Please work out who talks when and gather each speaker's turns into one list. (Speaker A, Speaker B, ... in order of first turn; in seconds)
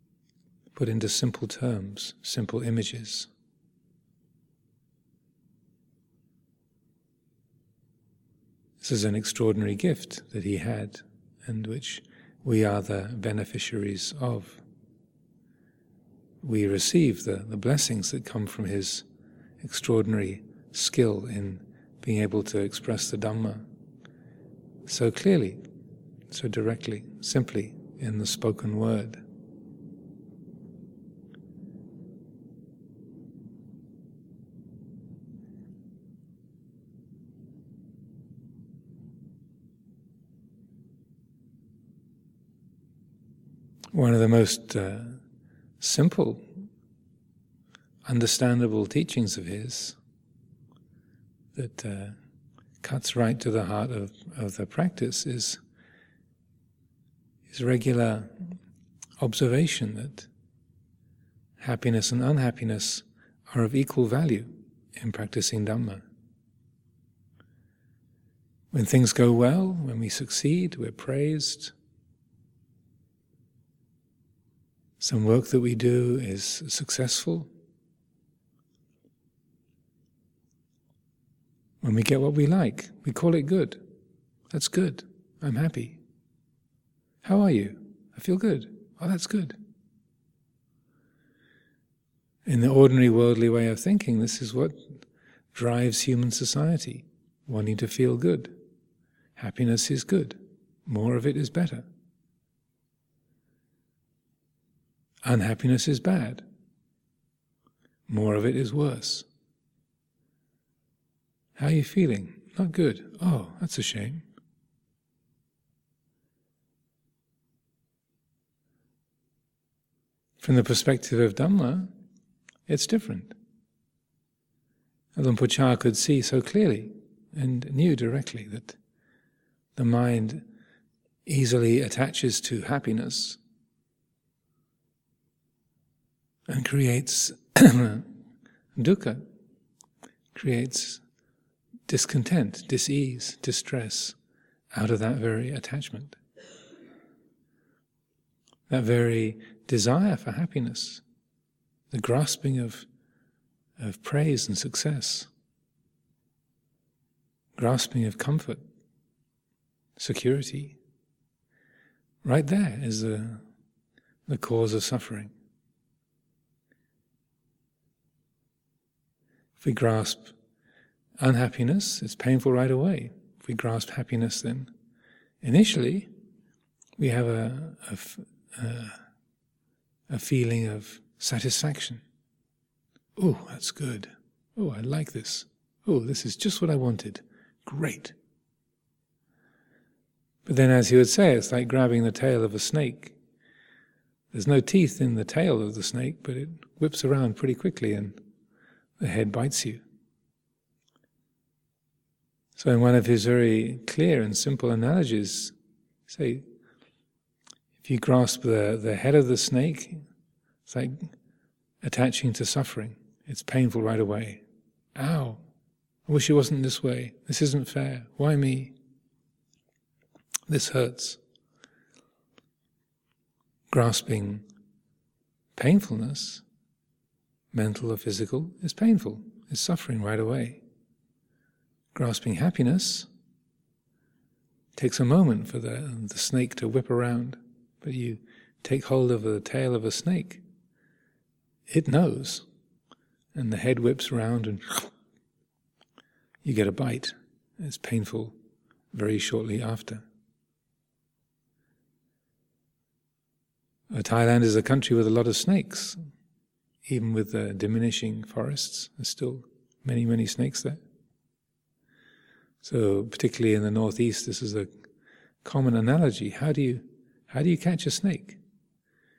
Speaker A: 0.7-3.3, 8.8-14.6, 16.4-19.0, 19.6-23.6, 24.9-25.6, 26.3-29.2, 43.9-45.2, 45.8-46.5, 48.0-50.0, 51.5-52.2, 52.8-55.6, 57.5-58.6, 59.2-60.3, 61.6-66.0, 68.7-71.7, 75.0-77.5, 81.8-83.8, 84.5-86.0, 87.2-89.6, 92.5-98.6, 99.3-101.8, 105.2-106.4, 108.1-109.3, 111.5-114.2, 120.4-121.9, 122.7-123.3, 125.1-128.8, 129.8-130.4, 131.2-133.4, 136.5-138.1, 138.8-139.3, 140.3-141.0, 141.9-144.2, 144.7-146.2, 148.7-151.0, 151.9-152.8, 153.8-155.3, 157.6-158.6, 160.0-160.8, 162.2-163.4, 164.2-165.3, 169.6-170.3, 171.2-174.7, 175.4-176.1, 177.0-179.0, 180.1-182.0, 183.2-188.2, 190.4-193.2, 194.3-198.2, 199.0-199.8, 202.6-205.5, 206.1-206.4, 207.8-210.0, 210.7-211.1, 211.8-214.4, 214.9-215.4, 216.1-218.7, 220.5-221.2, 223.7-224.4, 225.5-226.4, 227.5-230.6, 231.9-233.1, 234.7-240.4, 241.7-242.4, 243.3-244.9, 246.4-248.3, 248.9-250.0, 253.9-256.0, 256.8-260.8, 262.6-264.7, 265.4-268.4